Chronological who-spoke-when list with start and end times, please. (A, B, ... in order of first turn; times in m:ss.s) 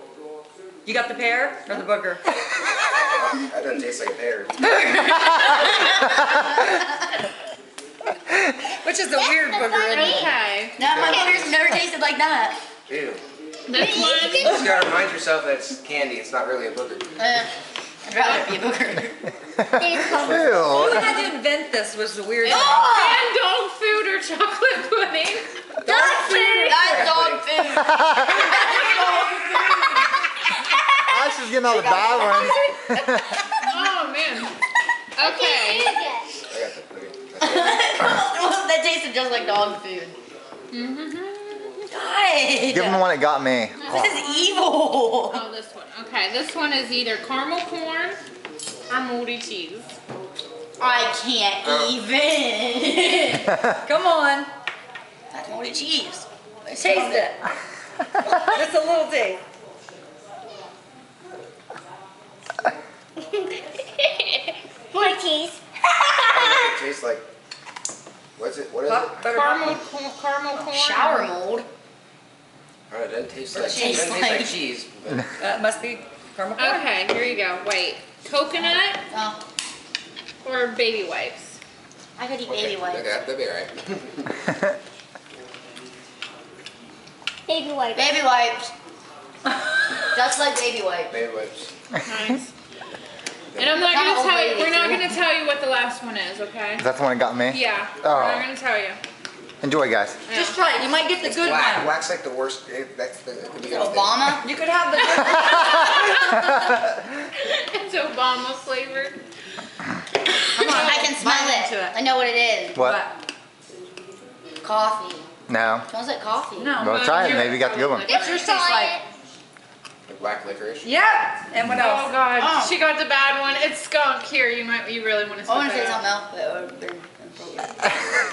0:00.8-0:02.2 A
0:03.1-0:04.6 B
0:04.6-0:06.9 C
0:08.7-0:10.2 A
0:09.1-0:10.3 D
0:09.8-0:10.8 E
0:10.8-0:12.6 C
0:10.8-0:11.8 B
0:11.0-0:11.4 D
0:12.9-0:13.2 B
0:13.7-0:14.7 D
0:13.7-0:14.7 E
0:14.4-0:17.2 B
0:17.2-0:17.5 C
0:18.0-0:19.2 C
0:19.6-0:21.2 F
0:19.8-0:20.7 D
0:20.0-0:21.2 B
0:20.6-0:22.9 A
0:22.4-0:23.3 C
0:22.4-0:25.7 E
0:25.8-0:33.4 C
0:25.8-0:27.0 D
0:25.8-0:26.8 A
0:26.8-0:27.5 B
0:28.5-0:28.8 E
0:31.0-0:33.4 F
0:33.6-0:34.5 E
0:35.2-0:36.0 E
0:35.2-0:36.4 D
0:36.5-0:38.2 B
0:37.4-0:40.2 C
0:40.7-0:41.9 E
0:41.9-0:43.1 C
0:42.7-0:44.2 F
0:43.8-0:44.6 E
0:43.9-0:45.4 C
0:45.3-0:48.2 E
0:48.9-0:49.9 E
0:50.8-0:53.5 C
0:53.8-0:54.5 A
0:55.3-0:57.3 C
0:56.7-0:57.4 A
0:58.4-0:59.4 A
1:03.3-1:06.8 D
1:06.3-1:07.3 B
1:08.4-1:09.4 B
1:08.9-1:09.8 A
1:09.2-1:11.3 E
1:10.6-1:11.7 C
1:12.9-1:15.3 B
1:13.5-1:14.0 A
1:13.6-1:14.7 C
1:15.4-1:16.9 A
1:16.6-1:19.0 E
1:19.1-1:19.4 C
1:20.4-1:21.6 E
1:22.2-1:23.0 C
1:22.4-1:24.3 B
1:27.5-1:28.2 D
1:27.9-1:28.7 C
1:30.1-1:31.2 C
1:31.1-1:31.7 B
1:32.0-1:32.5 E
1:33.5-1:33.8 B
1:33.6-1:36.8 E
1:33.8-1:35.2 C
1:36.8-1:38.5 F
1:37.5-1:39.0 E
1:39.6-1:40.2 F
1:40.3-1:40.6 E
1:40.3-1:42.0 A
1:41.2-1:44.4 B
1:43.6-1:44.4 C
1:44.4-1:46.0 A
1:45.3-1:49.2 E
1:50.5-1:51.9 A
1:50.6-1:52.8 C
1:50.6-1:51.1 E
1:52.7-1:53.0 F
1:52.8-1:53.1 A
1:54.6-1:55.2 C
1:55.5-1:55.8 F
1:55.9-1:56.8 C
1:56.6-1:57.4 A
1:56.8-1:58.1 F
1:56.8-1:58.8 E
1:58.0-1:59.0 D
1:58.1-1:58.9 A
2:00.1-2:00.9 B
2:00.8-2:02.1 A
2:01.7-2:06.0 E
2:02.4-2:02.8 C
2:05.4-2:07.9 C